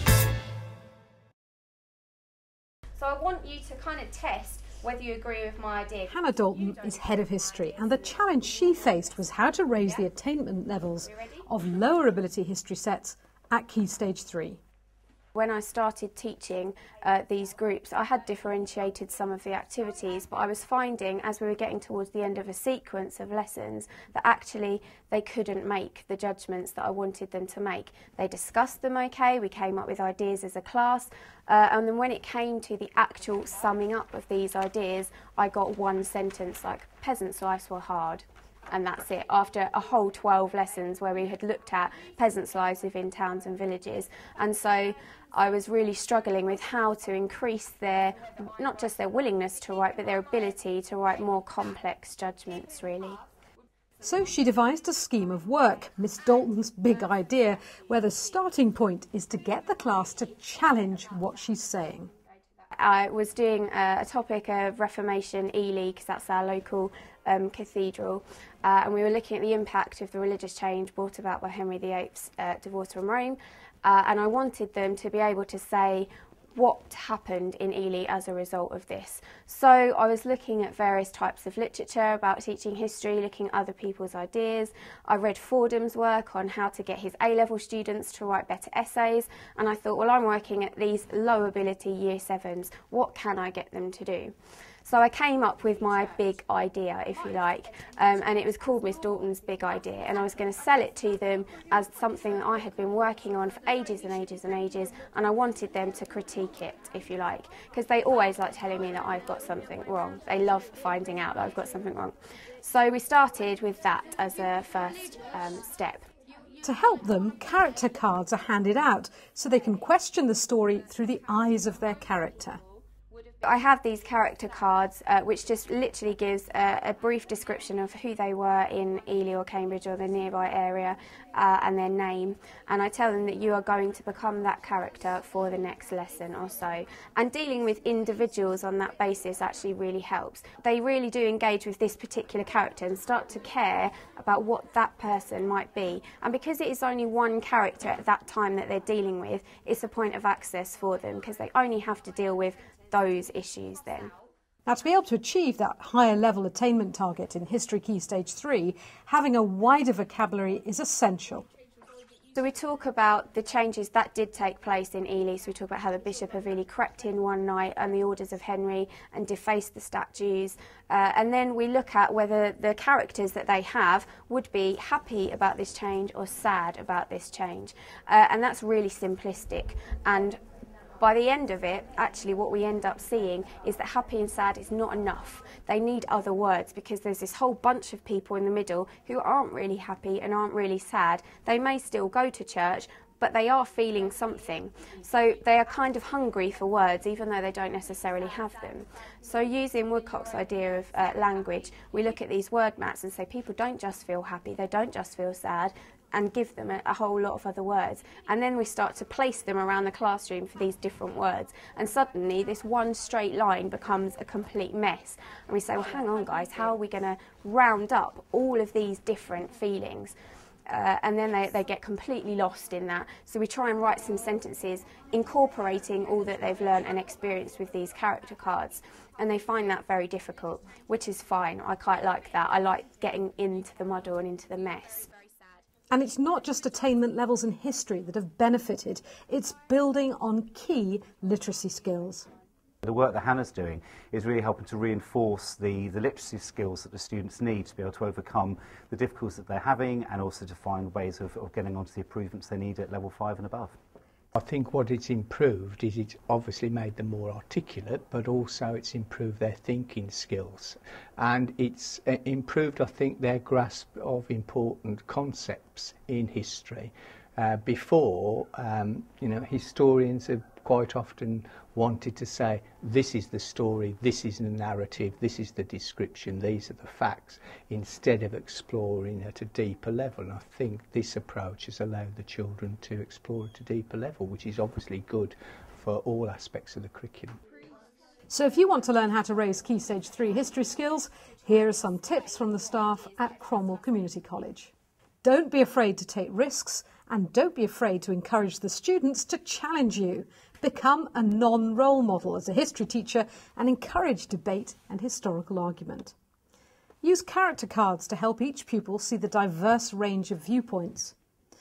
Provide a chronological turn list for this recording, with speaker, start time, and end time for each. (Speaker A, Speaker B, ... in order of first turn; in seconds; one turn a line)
Speaker A: 3.0-6.1
Speaker B: 6.1-14.6
Speaker A: 15.3-53.2
Speaker B: 54.0-62.1
Speaker A: 62.8-94.3
Speaker A: 94.8-116.1
Speaker B: 116.6-122.6
Speaker A: 123.4-154.1
Speaker B: 154.7-161.4
Speaker A: 162.3-180.4
Speaker A: 181.0-220.1
Speaker A: 220.7-235.1
Speaker B: 235.9-242.3
Speaker C: 242.8-253.8
Speaker D: 254.3-287.4
Speaker B: 288.3-294.7
Speaker B: 295.2-306.1
Speaker B: 307.0-311.1